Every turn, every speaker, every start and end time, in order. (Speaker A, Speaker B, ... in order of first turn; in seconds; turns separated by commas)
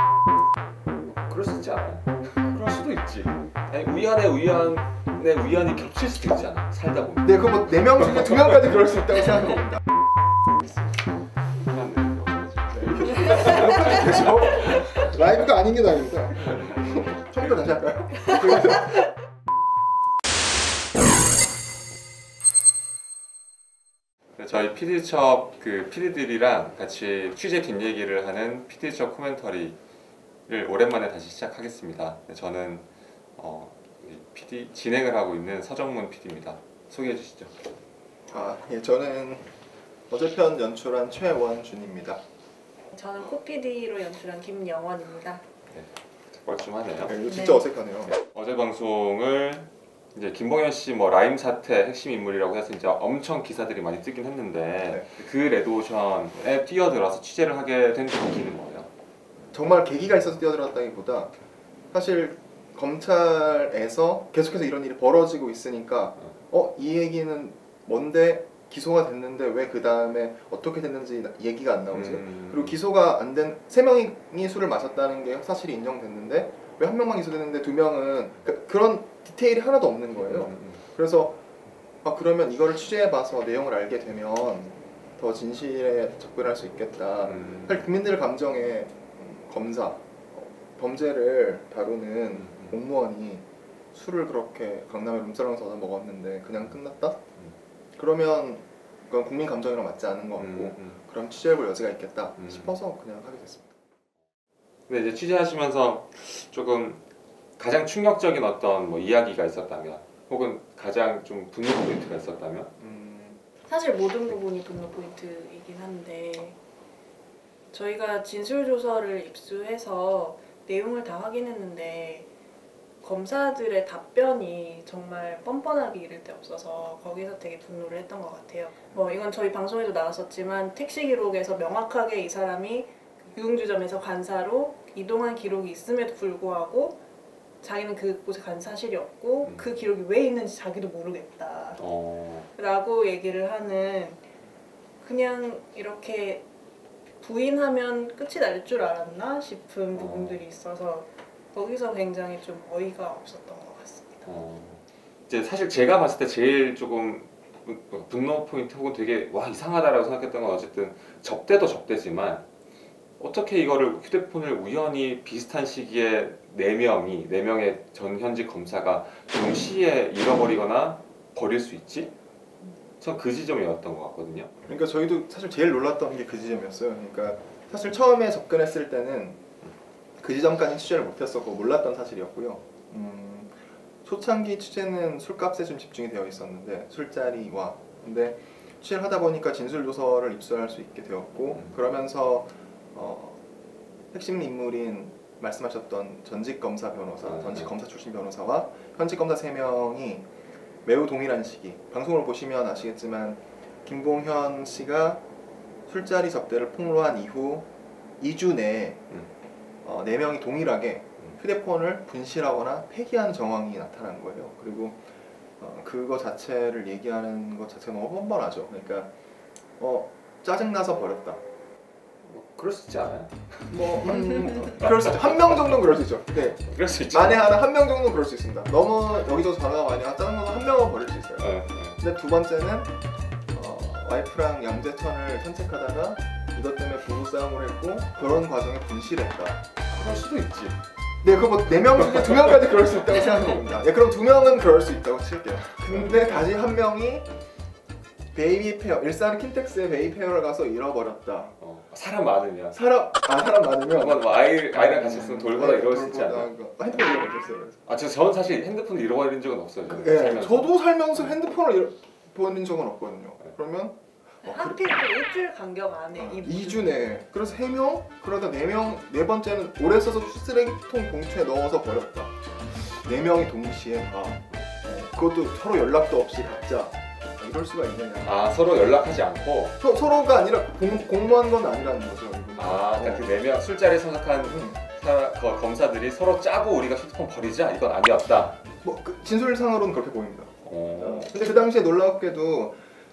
Speaker A: 1.2-7.8, Speaker B: 7.2-9.8, Speaker A: 11.5-15.0, Speaker B: 12.7-19.0, Speaker A: 24.4-29.8, Speaker A: 30.5-32.9, Speaker A: 33.4-37.5, Speaker B: 38.3-39.5, Speaker B: 40.1-42.2, Speaker C: 42.9-45.4, Speaker A: 45.7-47.1, Speaker B: 47.1-48.1, Speaker C: 47.2-47.6, Speaker A: 48.1-58.9, Speaker B: 54.9-55.1, Speaker B: 59.5-61.3, Speaker B: 61.9-81.4, Speaker A: 71.9-72.8, Speaker A: 80.2-80.8, Speaker B: 82.0-97.2, Speaker A: 87.3-87.8, Speaker A: 92.4-92.7, Speaker B: 98.0-103.7, Speaker A: 100.4-101.0, Speaker A: 102.4-102.7, Speaker A: 104.9-107.0, Speaker A: 107.6-112.7, Speaker B: 112.8-113.4, Speaker C: 113.7-116.6, Speaker C: 117.7-122.3, Speaker C: 123.0-137.0, Speaker C: 137.6-141.8, Speaker A: 139.4-139.7, Speaker A: 141.8-142.5, Speaker C: 142.5-144.2, Speaker C: 145.0-146.4, Speaker C: 147.2-154.2, Speaker A: 149.9-150.4, Speaker A: 154.2-162.4, Speaker A: 163.2-172.1, Speaker A: 173.0-174.5, Speaker B: 174.6-179.4, Speaker B: 180.2-193.4, Speaker B: 194.1-200.2, Speaker A: 197.2-197.7, Speaker B: 200.8-205.2, Speaker B: 205.9-207.7, Speaker B: 208.2-209.0, Speaker B: 209.8-215.0, Speaker B: 215.6-219.1, Speaker B: 219.8-221.4, Speaker A: 222.2-224.1, Speaker B: 223.7-232.9, Speaker A: 226.6-227.5, Speaker A: 231.4-232.0, Speaker B: 233.5-239.6, Speaker A: 239.9-240.8, Speaker B: 241.2-247.3, Speaker A: 245.9-246.5, Speaker B: 248.3-251.5, Speaker A: 251.6-252.8, Speaker B: 252.7-257.8, Speaker A: 253.9-256.5, Speaker A: 257.9-261.3, Speaker B: 259.9-264.8, Speaker C: 264.4-267.0, Speaker B: 266.1-278.4, Speaker A: 278.2-279.8, Speaker B: 279.8-283.3, Speaker A: 282.6-288.6, Speaker B: 284.5-284.8, Speaker B: 288.8-292.8, Speaker A: 290.6-291.4